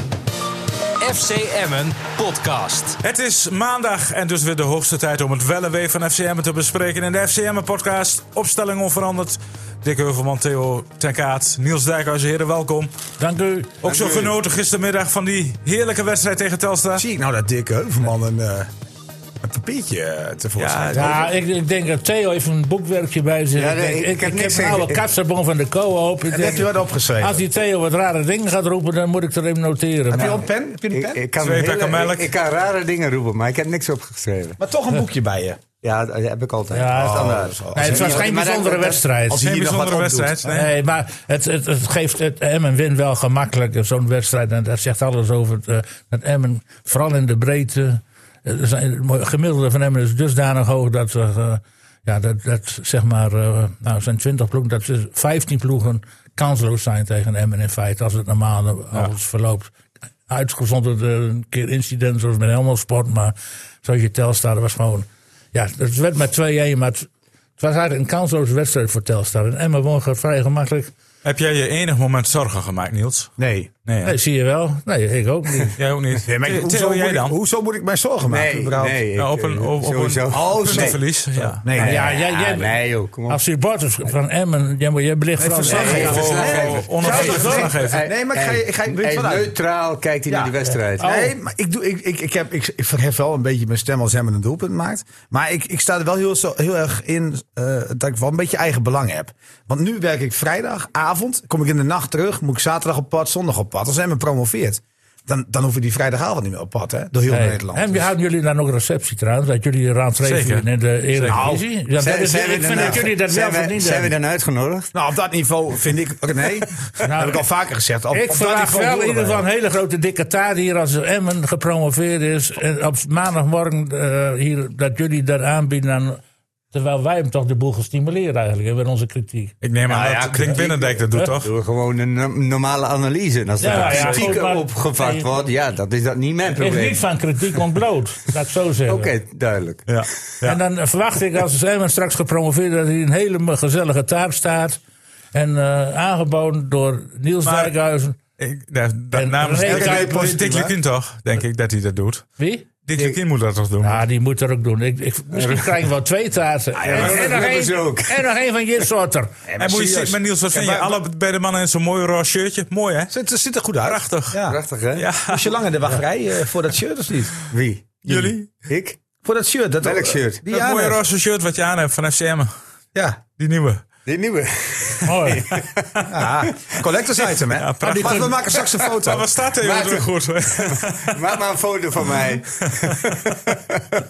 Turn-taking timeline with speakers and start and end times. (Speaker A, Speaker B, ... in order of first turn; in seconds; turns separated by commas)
Speaker A: 1.0-3.0, Speaker B: 3.0-12.9, Speaker C: 13.2-13.7, Speaker B: 13.8-17.0, Speaker D: 13.8-14.4, Speaker E: 16.9-18.7, Speaker E: 19.4-21.2, Speaker B: 20.6-21.3, Speaker C: 20.9-30.4, Speaker D: 23.6-25.0, Speaker E: 26.3-27.4, Speaker E: 30.1-31.2, Speaker D: 30.9-34.6, Speaker B: 31.4-32.3, Speaker E: 34.6-35.6, Speaker D: 35.8-39.0, Speaker C: 36.7-39.4, Speaker E: 37.0-38.2, Speaker E: 39.3-40.5, Speaker B: 39.4-40.7, Speaker C: 40.5-59.7, Speaker C: 60.3-70.9, Speaker B: 71.2-73.3, Speaker E: 73.4-73.7, Speaker B: 73.8-74.2, Speaker C: 74.0-75.8, Speaker B: 75.8-77.4, Speaker E: 76.2-79.0, Speaker D: 78.2-81.0, Speaker B: 79.2-81.6, Speaker E: 80.3-82.1, Speaker D: 81.6-83.4, Speaker C: 81.8-82.8, Speaker C: 83.3-86.4, Speaker E: 85.4-89.5, Speaker D: 85.7-91.1, Speaker B: 85.8-88.1, Speaker C: 87.0-87.7, Speaker E: 90.3-108.1, Speaker C: 90.7-91.3, Speaker C: 107.3-114.1, Speaker B: 110.2-111.4, Speaker E: 111.3-111.6, Speaker D: 112.0-114.9, Speaker E: 114.9-119.4, Speaker C: 117.0-117.4, Speaker C: 118.1-126.2, Speaker C: 126.7-129.6, Speaker B: 129.6-131.5, Speaker D: 129.8-137.0, Speaker C: 133.6-135.4, Speaker B: 133.6-134.3, Speaker C: 136.6-139.1, Speaker D: 138.8-139.9, Speaker B: 139.9-140.6, Speaker C: 140.4-144.8, Speaker C: 145.3-148.2, Speaker B: 147.4-147.7, Speaker B: 148.4-152.3, Speaker C: 149.1-150.3, Speaker E: 149.6-150.7, Speaker C: 152.4-152.7, Speaker B: 152.8-154.0, Speaker D: 152.9-153.2, Speaker C: 153.8-159.3, Speaker D: 155.3-155.8, Speaker E: 156.8-157.4, Speaker D: 156.8-158.2, Speaker E: 159.5-161.0, Speaker B: 159.6-163.1, Speaker E: 163.1-164.6, Speaker B: 163.8-164.4, Speaker D: 164.4-165.1, Speaker B: 164.9-165.6, Speaker E: 165.3-167.4, Speaker D: 167.5-169.0, Speaker B: 168.0-168.4, Speaker E: 169.2-171.0, Speaker D: 169.8-170.4, Speaker B: 170.5-172.5, Speaker E: 172.9-173.2, Speaker B: 173.4-173.8, Speaker D: 174.1-176.7, Speaker C: 175.1-175.4, Speaker B: 175.6-176.0, Speaker E: 176.1-179.3, Speaker B: 177.5-181.3, Speaker D: 179.6-184.0, Speaker B: 182.6-183.3